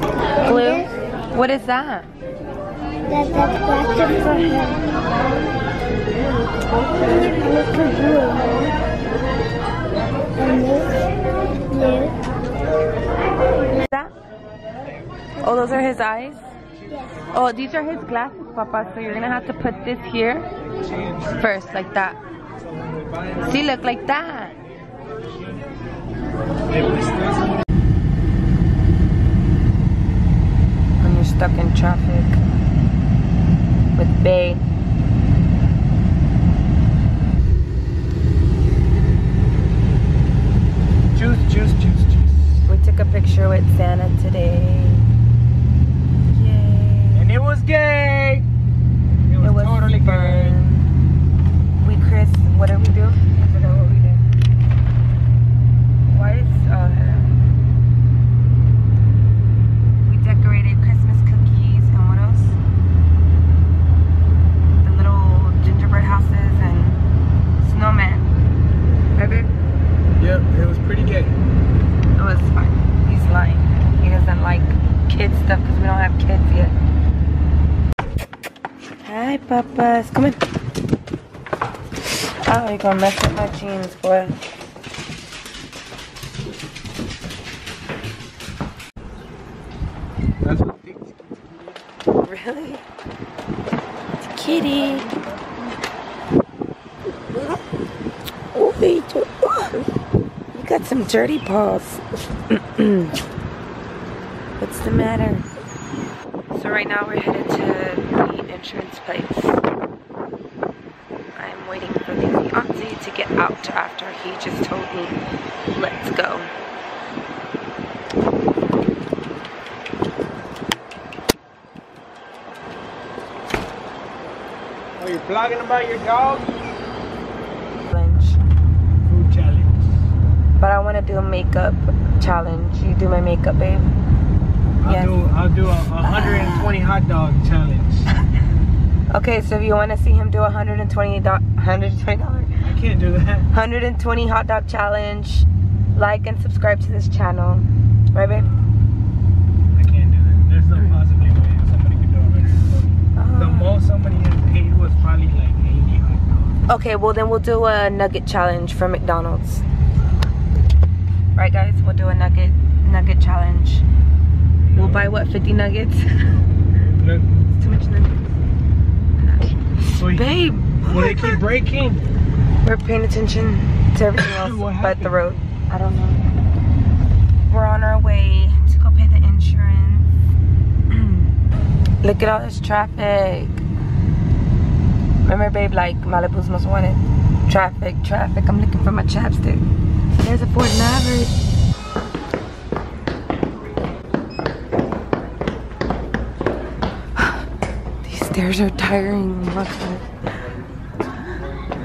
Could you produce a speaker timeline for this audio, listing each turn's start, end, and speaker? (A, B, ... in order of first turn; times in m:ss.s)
0:00.4-0:02.1 A
0:03.1-0:05.0 B
0:07.1-0:08.6 B
0:10.4-0:10.9 B
0:11.7-0:12.2 B
0:13.7-0:14.1 A
0:15.4-0:16.4 A
0:17.3-0:20.5 A
0:20.8-0:21.4 C
0:21.3-0:22.2 A
0:22.6-0:23.7 C
0:23.4-0:24.6 A
0:26.7-0:27.6 C
0:31.0-0:32.4 A
0:33.9-0:34.6 A
0:41.1-0:42.7 C
0:42.6-0:45.0 A
0:46.3-0:47.3 A
0:47.1-0:48.4 C
0:49.3-0:50.6 C
0:49.4-0:50.9 A
0:51.8-0:54.2 A
0:56.0-0:57.3 A
1:00.0-1:02.6 A
1:04.8-1:07.0 A
1:07.6-1:08.3 A
1:09.2-1:09.5 A
1:10.2-1:11.4 C
1:12.2-1:16.7 A
1:19.0-1:20.4 A
1:22.4-1:24.4 A
1:30.4-1:31.6 C
1:32.2-1:32.8 A
1:34.2-1:35.1 A
1:34.4-1:35.5 C
1:38.5-1:39.9 A
1:40.5-1:43.2 A
1:44.6-1:45.4 A
1:46.5-1:49.6 A
1:51.3-1:55.2 A
1:55.7-1:56.5 A
2:05.0-2:06.5 C
2:07.9-2:08.4 A
2:09.0-2:09.8 C
2:10.6-2:13.9 A
2:14.8-2:18.1 C
2:14.8-2:15.2 A
2:16.0-2:16.6 A
2:19.1-2:22.5 A
2:22.6-2:23.5 C
2:23.5-2:28.5 A
2:29.7-2:36.6 C
2:33.2-2:33.8 A
2:36.7-2:39.6 A
2:41.3-2:43.8 A
2:44.7-2:45.1 C
2:44.8-2:46.4 A
2:46.7-2:47.3 C
2:47.5-2:48.3 A
2:49.2-2:51.4 A
2:50.0-2:50.2 C
2:50.8-2:52.0 C
2:52.6-2:56.2 A
2:54.2-2:55.3 C
2:57.5-3:00.1 A
3:00.9-3:01.3 A
3:02.0-3:03.6 A
3:05.2-3:09.6 A
3:10.2-3:11.3 A
3:18.0-3:20.1 A